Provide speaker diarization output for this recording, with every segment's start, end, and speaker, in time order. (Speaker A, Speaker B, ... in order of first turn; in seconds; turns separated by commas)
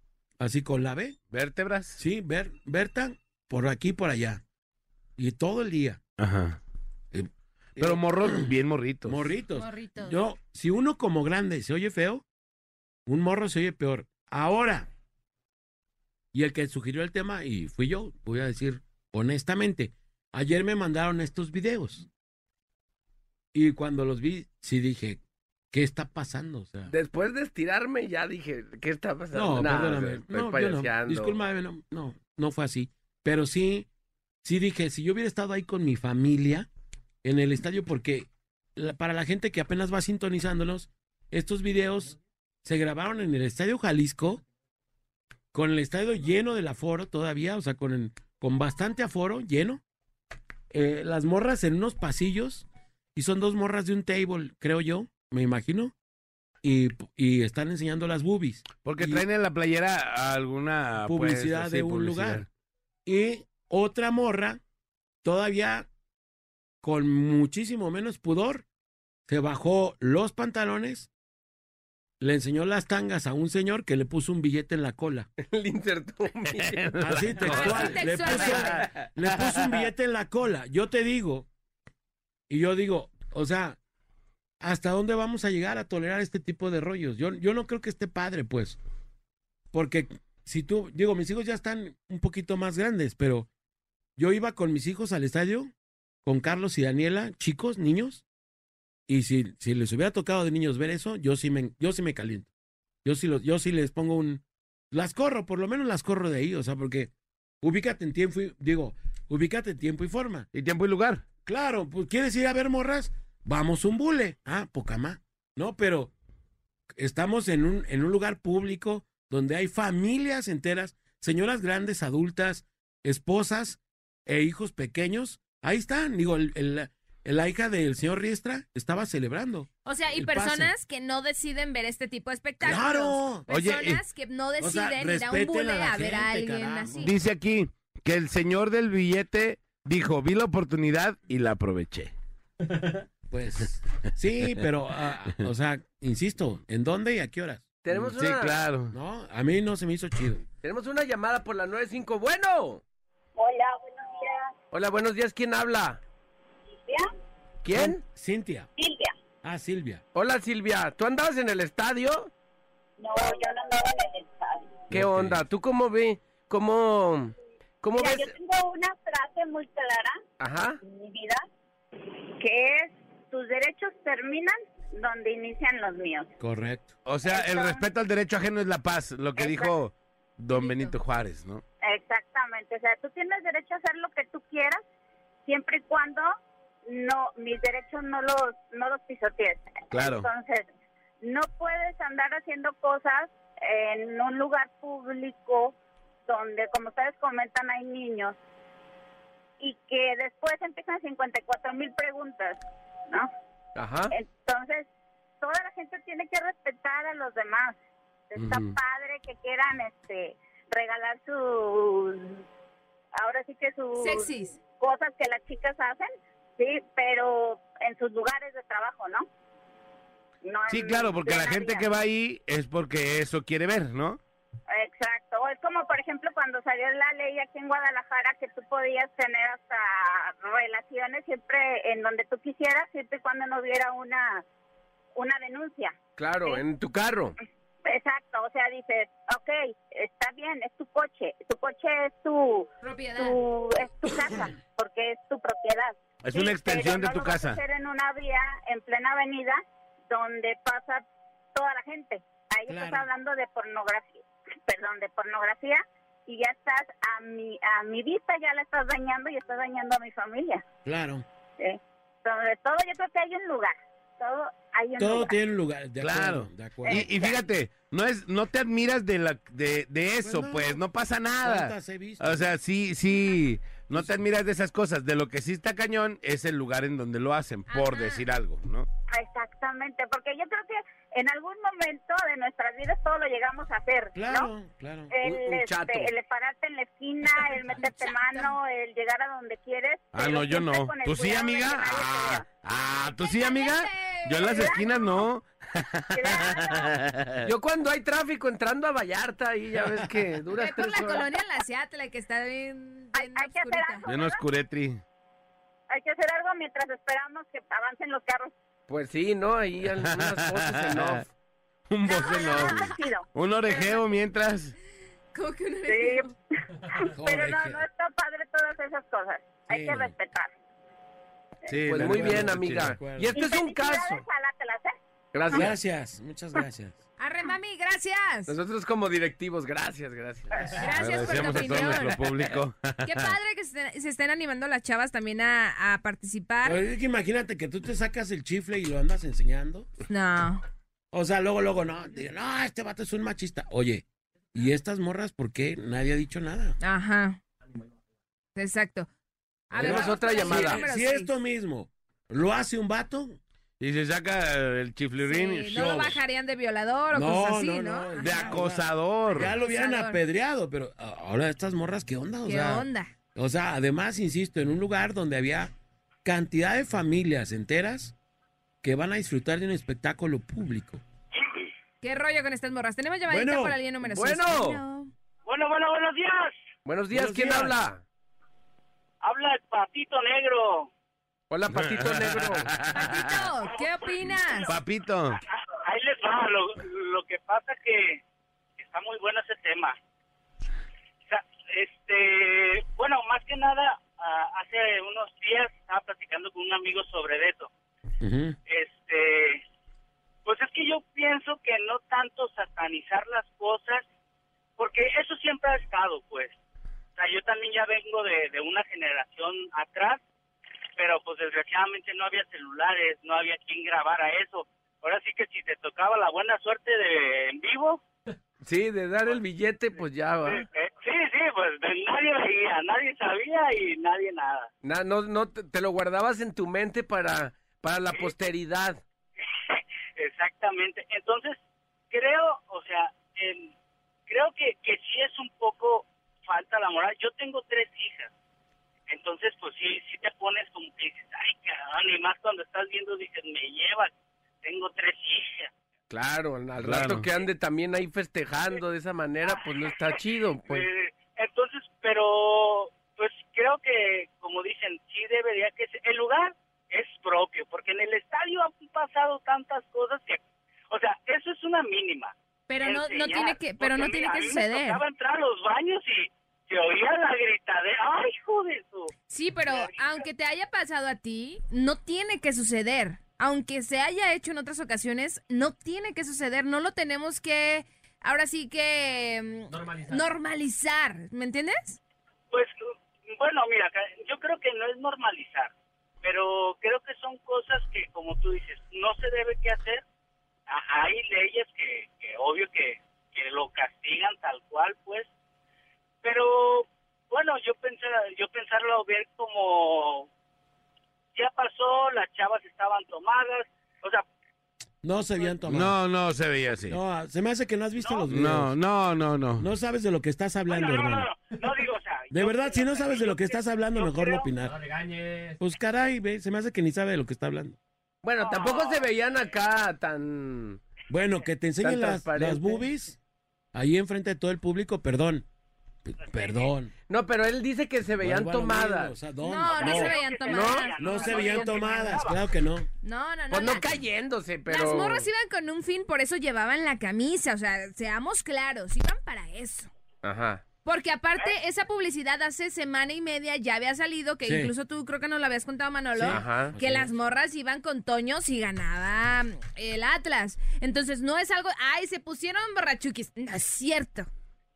Speaker A: 0.4-1.2, Speaker B: 1.3-2.0, Speaker A: 2.0-4.4, Speaker A: 5.2-6.0, Speaker B: 6.2-6.6, Speaker A: 7.1-8.5, Speaker B: 7.8-9.3, Speaker A: 9.1-12.2, Speaker C: 9.6-10.2, Speaker A: 13.1-14.9, Speaker A: 16.3-22.1, Speaker A: 23.5-26.9, Speaker D: 26.9-31.3, Speaker A: 29.3-33.9, Speaker A: 34.4-36.7, Speaker A: 37.2-44.4, Speaker A: 45.5-49.8, Speaker A: 50.7-55.9, Speaker A: 56.6-59.2, Speaker B: 58.8-62.5, Speaker A: 61.0-62.5, Speaker A: 63.0-64.6, Speaker A: 65.2-65.9, Speaker A: 66.8-68.6, Speaker A: 69.3-71.1, Speaker A: 72.2-75.3, Speaker D: 75.4-77.6, Speaker B: 76.5-78.6, Speaker A: 77.0-81.5, Speaker C: 77.4-78.7, Speaker A: 82.5-83.8, Speaker A: 84.6-88.8, Speaker A: 89.7-93.5, Speaker A: 94.2-95.7, Speaker A: 96.2-98.2, Speaker A: 99.1-102.5, Speaker A: 103.0-107.1, Speaker A: 107.6-110.5, Speaker B: 110.5-111.2, Speaker A: 111.4-116.1, Speaker A: 117.0-130.7, Speaker C: 129.8-137.1, Speaker A: 132.6-133.5, Speaker B: 133.5-134.0, Speaker A: 134.6-136.9, Speaker B: 136.9-142.1, Speaker A: 143.3-147.6, Speaker D: 147.8-148.6, Speaker B: 147.9-148.9, Speaker A: 148.9-150.4, Speaker D: 150.6-152.8, Speaker E: 153.3-154.5, Speaker D: 154.7-156.0, Speaker D: 157.6-158.0, Speaker A: 157.7-158.7, Speaker E: 158.8-159.2, Speaker A: 159.4-160.0, Speaker D: 160.1-162.3, Speaker E: 163.0-164.8, Speaker B: 164.9-165.4, Speaker D: 164.9-168.3, Speaker E: 167.9-170.2, Speaker D: 170.4-170.8, Speaker E: 170.8-171.4, Speaker E: 172.4-176.3, Speaker A: 176.4-176.9, Speaker B: 177.0-181.6, Speaker E: 177.2-177.8, Speaker E: 179.3-179.7, Speaker E: 180.5-180.9, Speaker E: 181.8-184.8, Speaker E: 185.4-186.3, Speaker E: 186.9-190.7, Speaker B: 189.9-190.3, Speaker E: 191.2-195.8, Speaker E: 196.3-198.4, Speaker E: 199.6-203.3, Speaker D: 203.8-204.1, Speaker E: 204.1-204.9, Speaker E: 205.4-207.8, Speaker E: 208.3-212.4, Speaker B: 208.3-208.8, Speaker E: 213.1-219.3, Speaker C: 214.0-214.5, Speaker E: 220.4-221.9, Speaker B: 220.7-224.2, Speaker E: 224.7-234.4, Speaker E: 235.2-235.9, Speaker D: 236.2-237.3, Speaker E: 237.8-260.6, Speaker C: 242.8-243.4, Speaker B: 246.2-247.6, Speaker A: 252.7-253.1, Speaker A: 260.8-261.2, Speaker E: 261.6-265.4, Speaker A: 265.0-267.1, Speaker B: 266.0-278.9, Speaker E: 266.9-267.4, Speaker A: 270.2-270.8, Speaker A: 271.4-272.5, Speaker C: 277.7-278.2, Speaker E: 279.1-284.5, Speaker A: 284.1-285.1, Speaker E: 285.1-292.4, Speaker D: 285.2-286.1, Speaker C: 287.8-288.5, Speaker B: 290.1-297.5, Speaker C: 293.2-294.8, Speaker E: 294.5-295.2, Speaker E: 296.1-296.9, Speaker D: 297.4-301.3, Speaker C: 300.5-304.0, Speaker E: 303.1-304.4, Speaker B: 304.1-305.0, Speaker E: 305.9-308.5, Speaker D: 308.9-311.3, Speaker B: 310.1-311.2, Speaker B: 311.9-314.7, Speaker E: 312.0-313.9, Speaker C: 312.3-312.9, Speaker C: 315.3-316.3, Speaker E: 315.9-320.5, Speaker A: 317.1-317.8, Speaker A: 319.7-320.1, Speaker B: 321.6-322.9, Speaker D: 321.9-324.2, Speaker A: 321.9-323.4, Speaker E: 323.3-325.0, Speaker D: 325.3-325.7, Speaker A: 325.5-327.0, Speaker C: 327.2-328.5, Speaker D: 328.5-332.0, Speaker C: 330.8-332.1, Speaker B: 330.9-333.3, Speaker C: 333.0-336.8, Speaker A: 336.6-339.9, Speaker C: 340.1-340.6, Speaker A: 341.1-346.8, Speaker C: 346.8-347.4, Speaker C: 348.5-349.1, Speaker C: 349.7-351.3, Speaker D: 349.7-350.8, Speaker A: 349.8-353.4, Speaker B: 353.8-356.1, Speaker C: 355.2-358.6, Speaker A: 355.7-356.2, Speaker A: 357.1-365.7, Speaker B: 358.2-359.5, Speaker C: 359.4-360.2, Speaker C: 362.4-363.1, Speaker A: 366.2-368.1, Speaker A: 368.8-371.0, Speaker C: 372.0-375.1, Speaker A: 373.3-373.8, Speaker D: 374.0-374.8, Speaker F: 375.5-376.5, Speaker D: 376.9-378.0, Speaker A: 377.1-377.7, Speaker F: 379.2-380.9, Speaker D: 381.5-382.8, Speaker B: 381.7-383.4, Speaker C: 382.9-384.8, Speaker B: 384.6-385.4, Speaker F: 385.7-388.2, Speaker F: 388.8-389.9, Speaker F: 391.3-397.7, Speaker A: 398.2-398.6, Speaker F: 398.7-399.6, Speaker F: 400.4-404.0, Speaker F: 404.8-406.5, Speaker F: 407.1-410.2, Speaker F: 411.0-418.0, Speaker D: 418.6-420.6, Speaker F: 420.4-424.7, Speaker D: 424.8-429.0, Speaker F: 429.6-431.6, Speaker F: 432.1-433.7, Speaker F: 434.3-438.3, Speaker F: 439.1-445.7, Speaker D: 446.1-450.9, Speaker B: 446.8-447.2, Speaker F: 450.1-469.1, Speaker C: 462.7-465.0, Speaker C: 469.3-482.0, Speaker F: 469.7-470.2, Speaker F: 483.3-490.0, Speaker F: 490.7-495.3, Speaker F: 496.2-500.3, Speaker F: 501.3-504.2, Speaker A: 505.0-506.0, Speaker B: 505.7-507.0, Speaker A: 506.9-508.7, Speaker B: 508.3-509.7, Speaker A: 509.6-511.3, Speaker F: 510.7-514.5, Speaker A: 512.3-514.9, Speaker A: 515.6-517.8, Speaker D: 518.2-520.8, Speaker F: 518.4-519.1, Speaker A: 521.1-523.2, Speaker D: 521.8-522.8, Speaker A: 523.7-525.5, Speaker A: 526.0-526.9, Speaker F: 526.2-526.7, Speaker D: 527.1-529.1, Speaker A: 528.2-530.1, Speaker C: 529.4-532.2, Speaker F: 529.6-532.4, Speaker D: 530.5-530.9, Speaker A: 531.0-532.9, Speaker C: 533.0-534.0, Speaker D: 533.5-535.3, Speaker C: 534.7-539.9, Speaker D: 540.2-540.6, Speaker C: 540.8-554.3, Speaker A: 544.4-544.7, Speaker A: 546.1-547.1, Speaker D: 546.3-546.8